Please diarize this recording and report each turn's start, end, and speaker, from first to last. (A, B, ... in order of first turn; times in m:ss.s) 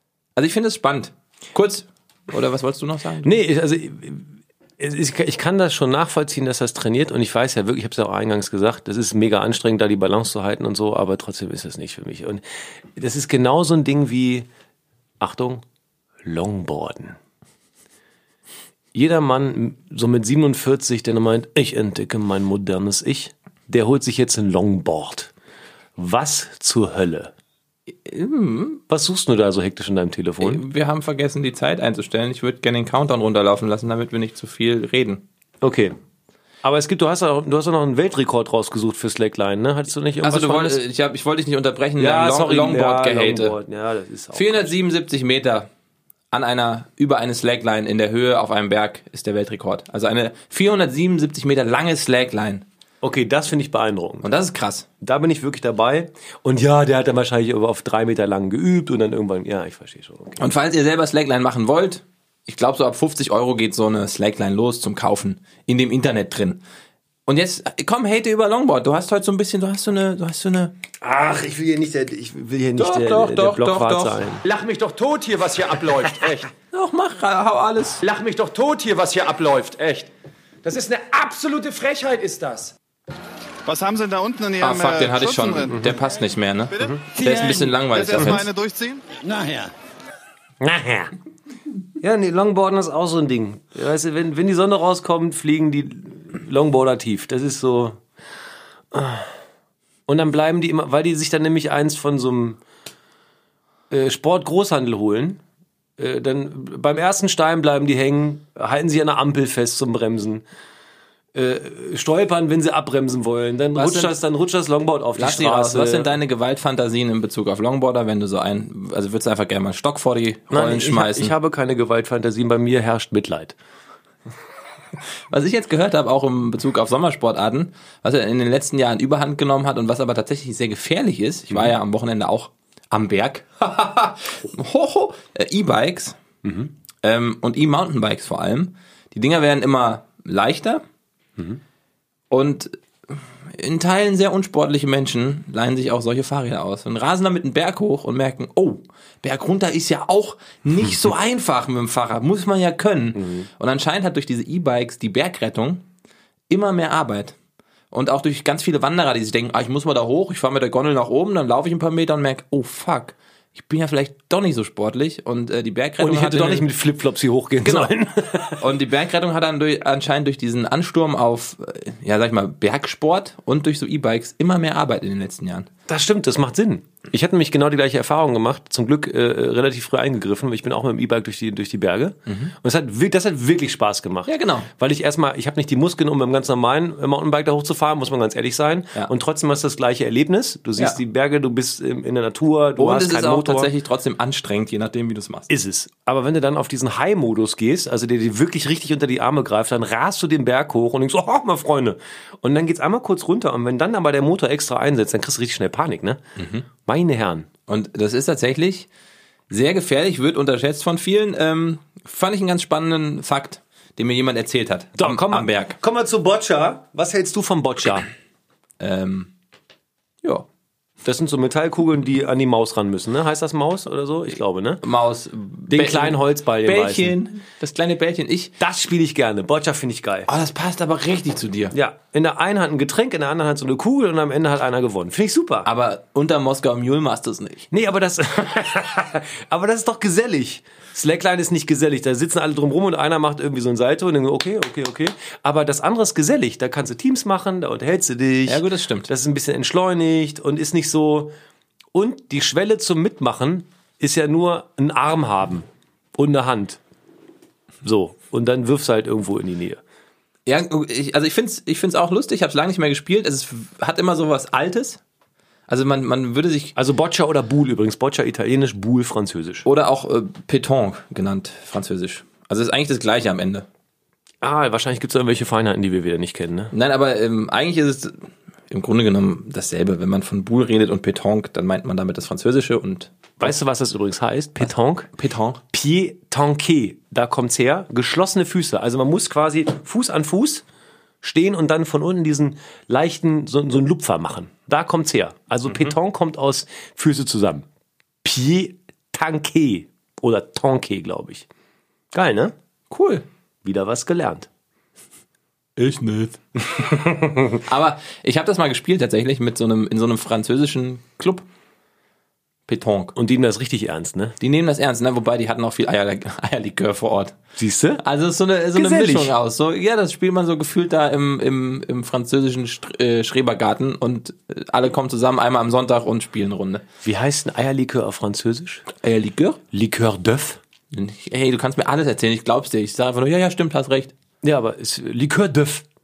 0:00.4-0:03.4 A
0:03.2-0:12.4 B
0:12.9-0:14.5 B
0:15.2-0:15.6 B
0:16.2-0:17.2 B
0:18.9-0:25.3 B
0:26.0-0:27.3 B
0:28.0-0:28.8 A
0:28.9-0:30.6 B
0:30.4-0:35.2 A
0:35.6-0:35.9 B
0:36.6-0:40.8 B
0:40.2-0:43.6 A
0:42.0-0:44.7 B
0:44.3-0:45.7 A
0:46.3-0:52.6 A
0:53.0-0:54.3 B
0:54.2-0:54.8 A
0:55.0-1:00.4 B
1:00.4-1:06.6 A
1:07.3-1:10.7 A
1:11.0-1:14.4 B
1:12.8-1:14.2 A
1:14.4-1:16.5 C
1:16.7-1:18.0 A
1:18.0-1:20.1 C
1:20.6-1:22.7 C
1:23.6-1:25.9 D
1:24.6-1:28.5 A
1:26.7-1:29.0 D
1:30.6-1:31.1 B
1:32.0-1:38.0 B
1:38.9-1:39.3 B
1:40.1-1:42.6 B
1:43.9-1:45.4 B
1:46.0-1:50.4 B
1:51.3-1:56.2 B
1:53.7-1:54.2 A
1:55.2-2:01.3 A
2:00.5-2:03.5 B
2:05.3-2:16.2 A
2:16.4-2:16.7 B
2:17.0-2:20.8 A
2:22.3-2:35.8 A
2:33.1-2:33.5 B
2:36.5-2:37.3 A
2:37.9-2:46.7 A
2:46.0-2:48.6 B
2:47.6-2:47.9 A
2:48.6-2:55.7 A
2:55.9-3:13.7 B
3:02.3-3:02.5 A
3:04.2-3:04.7 A
3:12.8-3:15.5 A
3:15.5-3:26.2 B
3:26.4-3:26.6 A
3:26.8-3:27.5 B
3:27.7-3:28.9 A
3:29.5-3:35.8 A
3:35.0-3:38.1 B
3:38.8-3:39.3 A
3:41.0-3:44.8 B
3:44.8-3:48.5 A
3:45.7-3:47.2 B
3:48.6-3:50.3 B
3:50.3-3:51.7 A
3:51.7-3:55.7 B
3:55.6-3:57.7 A
3:57.7-4:11.3 B
4:08.4-4:09.1 A
4:11.9-4:16.8 B
4:17.8-4:19.8 B
4:20.4-4:25.0 A
4:25.7-4:26.7 A
4:26.7-4:29.6 B
4:29.6-4:33.6 A
4:34.4-4:36.7 B
4:36.7-4:38.2 A
4:38.7-4:43.5 A
4:43.4-4:45.1 B
4:44.6-4:45.6 A
4:45.7-4:50.6 B
4:51.2-4:57.6 B
4:58.2-5:01.5 B
5:02.1-5:02.5 B
5:02.9-5:03.2 A
5:03.6-5:04.5 B
5:05.8-5:06.9 A
5:07.0-5:07.4 B
5:07.5-5:11.4 A
5:12.7-5:13.1 A
5:13.1-5:14.4 B
5:14.4-5:17.4 A
5:17.6-5:18.0 B
5:18.0-5:26.8 A
5:18.7-5:19.3 B
5:27.0-5:28.8 B
5:29.0-5:29.6 A
5:29.7-5:30.6 B
5:30.9-5:34.1 A
5:34.4-5:35.8 B